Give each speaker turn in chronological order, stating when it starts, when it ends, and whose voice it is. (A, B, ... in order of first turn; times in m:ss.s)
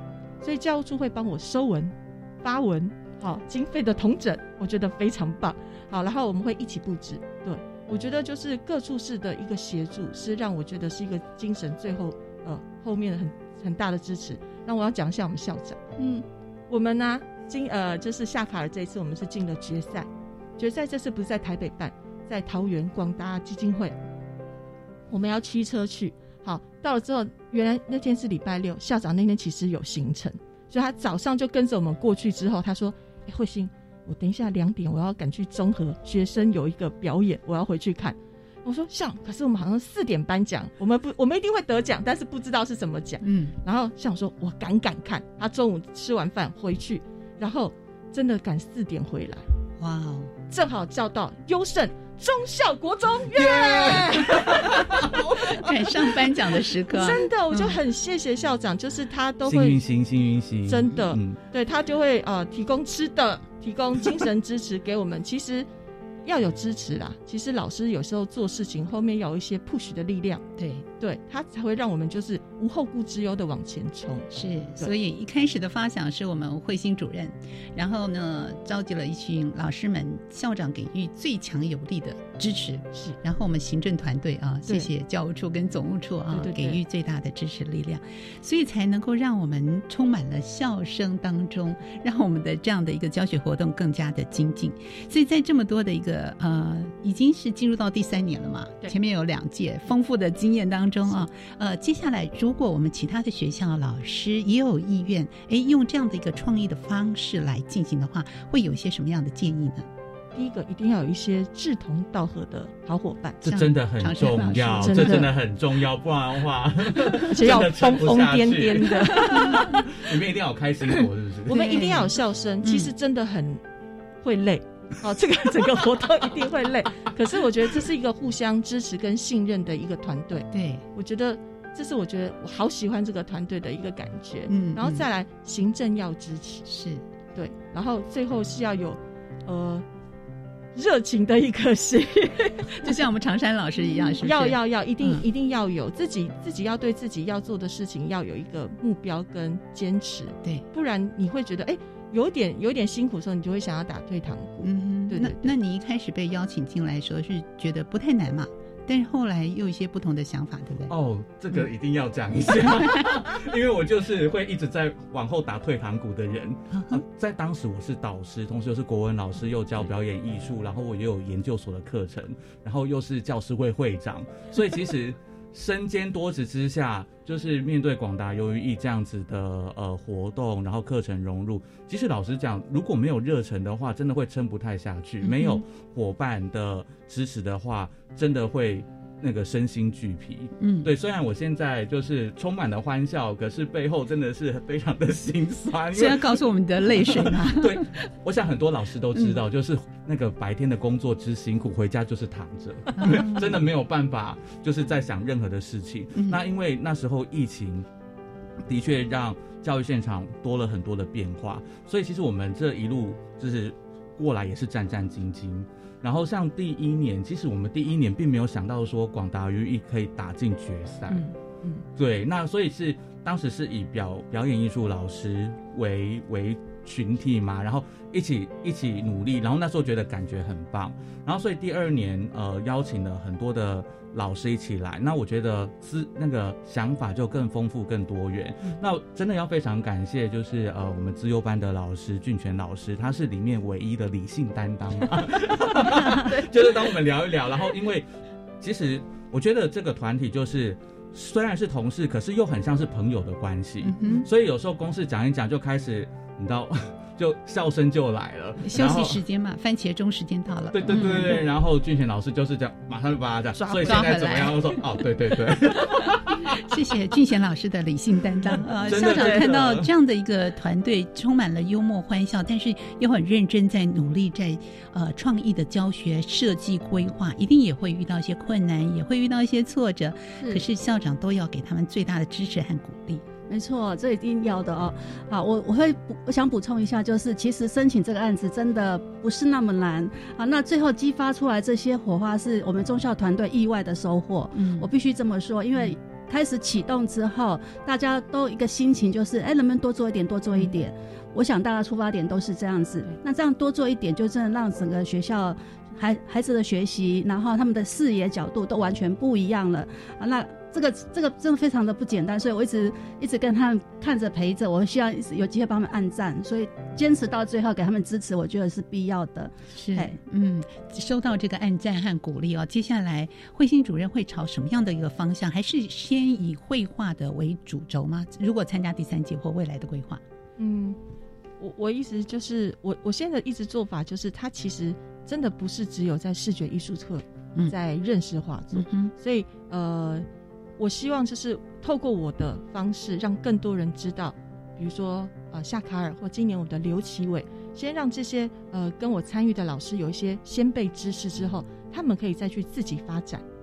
0:00.4-0:15.8 A
0:16.0-0:16.2 B
0:16.7-0:24.0 A
0:25.1-0:49.4 A
0:43.2-0:43.5 C
0:49.8-0:50.3 C
0:50.5-0:56.1 A
0:53.6-0:54.1 D
0:55.6-0:57.8 C
0:56.9-0:59.8 A
0:59.4-1:01.4 D
1:00.7-1:05.7 A
1:06.2-1:10.4 A
1:10.6-1:10.8 C
1:11.0-1:14.9 A
1:14.3-1:49.9 C
1:26.3-1:26.8 A
1:50.3-1:53.4 A
1:53.4-2:01.7 D
1:53.4-1:55.3 C
1:54.8-1:55.3 A
1:57.2-1:59.8 A
2:01.5-2:02.9 C
2:01.5-2:03.6 A
2:04.2-2:16.6 A
2:10.5-2:10.8 C
2:14.5-2:15.0 C
2:16.6-2:17.0 C
2:17.3-2:19.8 A
2:20.7-2:22.8 A
2:22.7-2:25.2 C
2:24.2-2:35.6 A
2:34.6-2:40.9 C
2:40.9-3:27.8 D
3:05.2-3:05.6 C
3:10.6-3:10.9 C
3:15.9-3:17.9 C
3:19.2-3:19.4 C
3:23.0-3:23.6 C
3:28.6-3:41.2 D
3:41.1-3:41.8 A
3:42.0-4:08.0 D
4:06.2-4:06.7 A
4:08.6-4:19.2 D
4:13.8-4:14.3 C
4:18.6-4:21.4 C
4:20.7-4:26.4 D
4:23.6-4:24.5 A
4:23.8-4:24.6 C
4:26.6-4:43.2 C
4:28.8-4:29.9 D
4:28.9-4:29.4 A
4:43.5-5:20.2 B
4:54.5-4:54.9 C
5:19.7-5:30.2 C
5:30.6-5:31.0 A
5:31.6-5:40.2 A
5:38.7-5:39.1 C
5:40.8-5:53.4 A